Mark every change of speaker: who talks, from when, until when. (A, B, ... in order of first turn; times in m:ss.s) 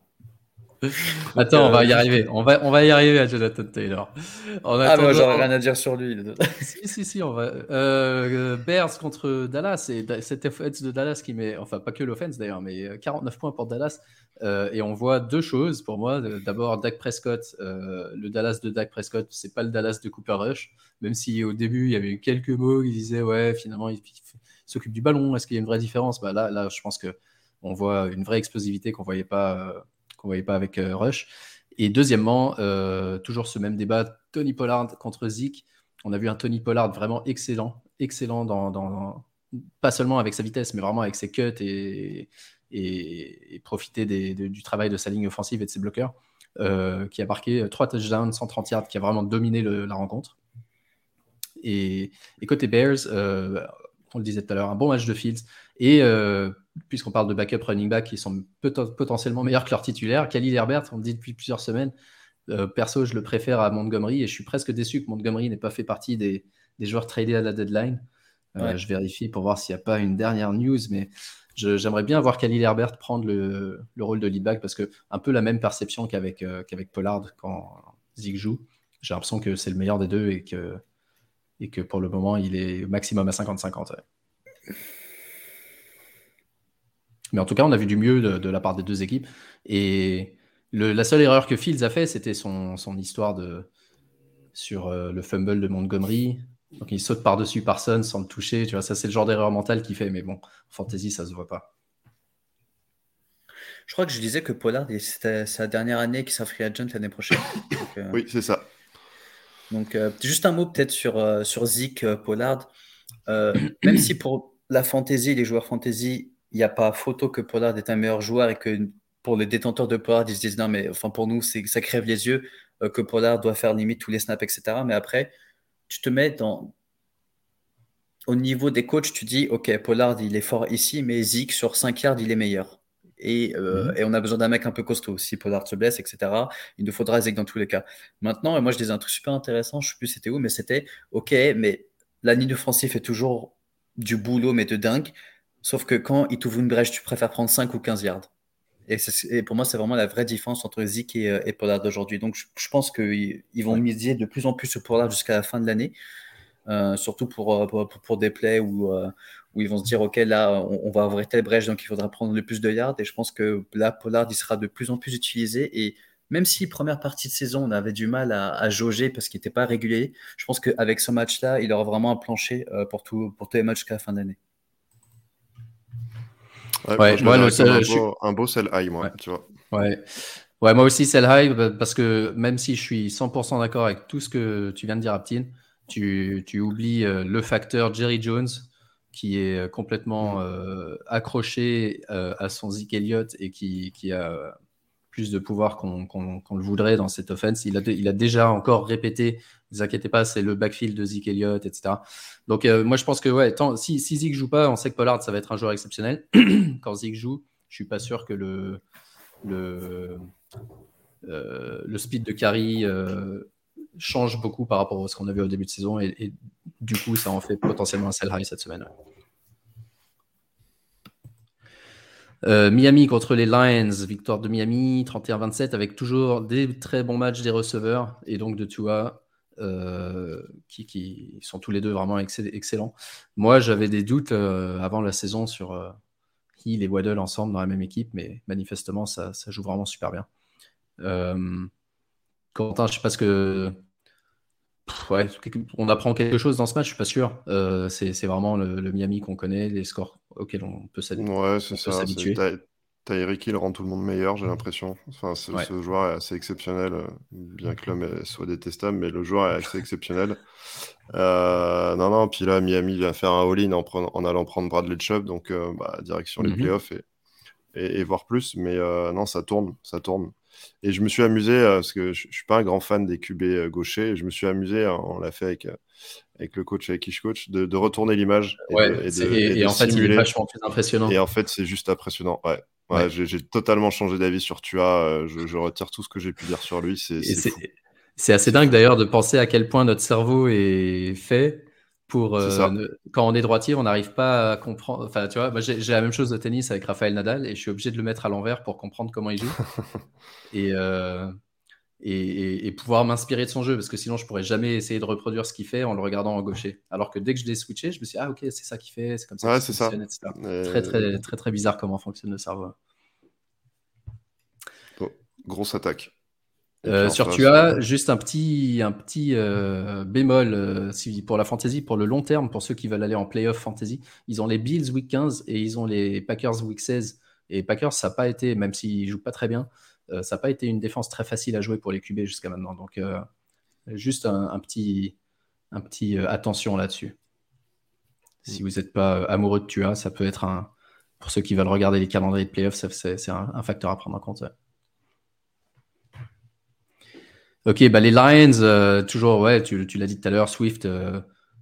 0:00.9-0:05.5 A
0:01.2-0:02.1 B
0:04.8-0:06.6 B
0:06.6-0:50.4 A
0:51.6-1:01.9 A
1:02.5-1:08.0 A
1:08.6-1:20.8 A
1:21.6-1:24.0 A
1:27.3-1:33.7 A
1:34.5-1:41.7 A
1:43.9-1:48.2 B
1:48.1-1:48.7 C
1:49.7-1:52.7 B
1:53.3-2:05.3 B
2:05.9-2:06.7 B
2:08.3-2:25.1 B
2:25.6-2:28.3 B
2:28.9-2:36.0 B
2:36.7-2:54.4 B
2:56.8-2:59.5 C
2:57.0-2:58.0 A
2:59.7-3:14.6 A
3:15.1-3:28.8 A
3:29.4-3:30.3 A
3:31.2-3:38.9 A
3:42.4-3:56.0 A
3:56.6-4:00.3 A
4:01.0-4:01.7 A
4:02.5-4:03.8 A
4:04.9-4:12.4 A
4:11.2-4:20.4 C
4:21.1-4:27.0 C
4:26.4-4:26.7 A
4:27.7-4:35.8 C
4:36.4-4:40.3 C
4:38.7-4:41.2 A
4:41.1-4:47.6 C
4:47.2-4:59.6 A
4:52.4-4:52.7 C
5:00.5-5:01.4 A
5:02.0-5:12.8 A
5:09.4-5:11.2 C
5:15.0-5:16.1 C
5:16.8-5:17.8 C
5:16.9-5:33.2 A
5:33.9-5:35.2 A
5:35.7-5:37.2 A
5:38.5-5:44.5 A
5:47.6-5:51.2 A